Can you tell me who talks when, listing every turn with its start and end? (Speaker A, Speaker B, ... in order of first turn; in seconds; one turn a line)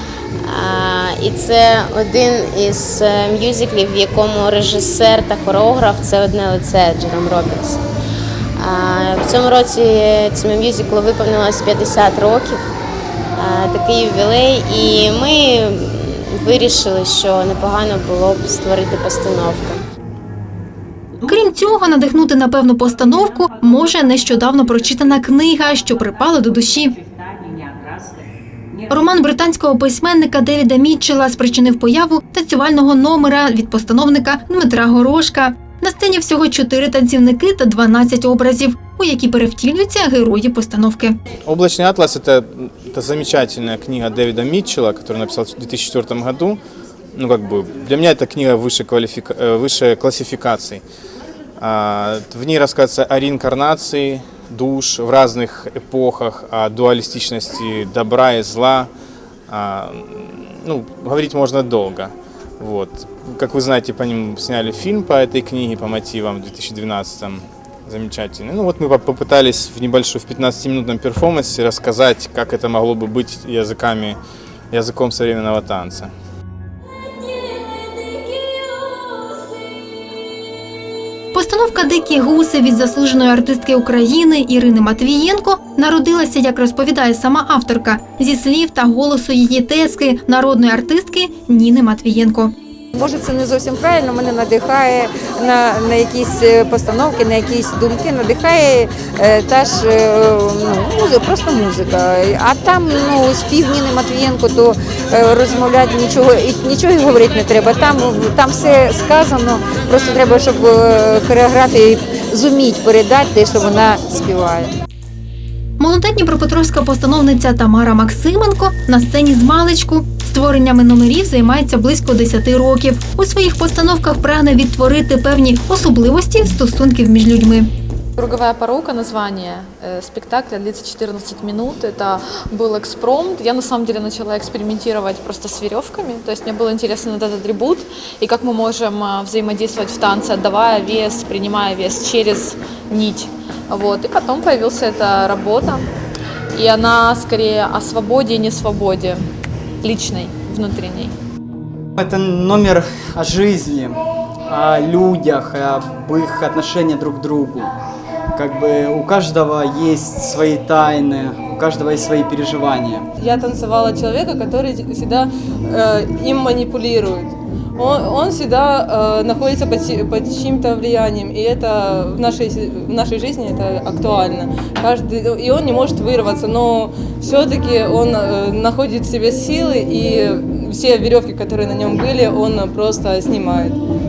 Speaker A: 0.4-7.8
Speaker A: 8.6-12.6
Speaker A: 13.4-19.8
Speaker B: 21.2-27.0
Speaker B: 28.9-41.2
Speaker C: 41.5-46.6
Speaker C: 47.1-50.8
Speaker C: 51.6-58.9
Speaker C: 59.5-74.2
Speaker C: 74.7-76.1
Speaker B: 81.3-92.5
Speaker D: 92.9-114.7
Speaker B: 115.8-127.7
Speaker E: 128.2-145.9
Speaker E: 146.5-149.2
Speaker E: 149.8-151.1
Speaker F: 152.0-154.0
Speaker F: 154.5-157.7
Speaker F: 158.3-163.1
Speaker G: 163.2-183.8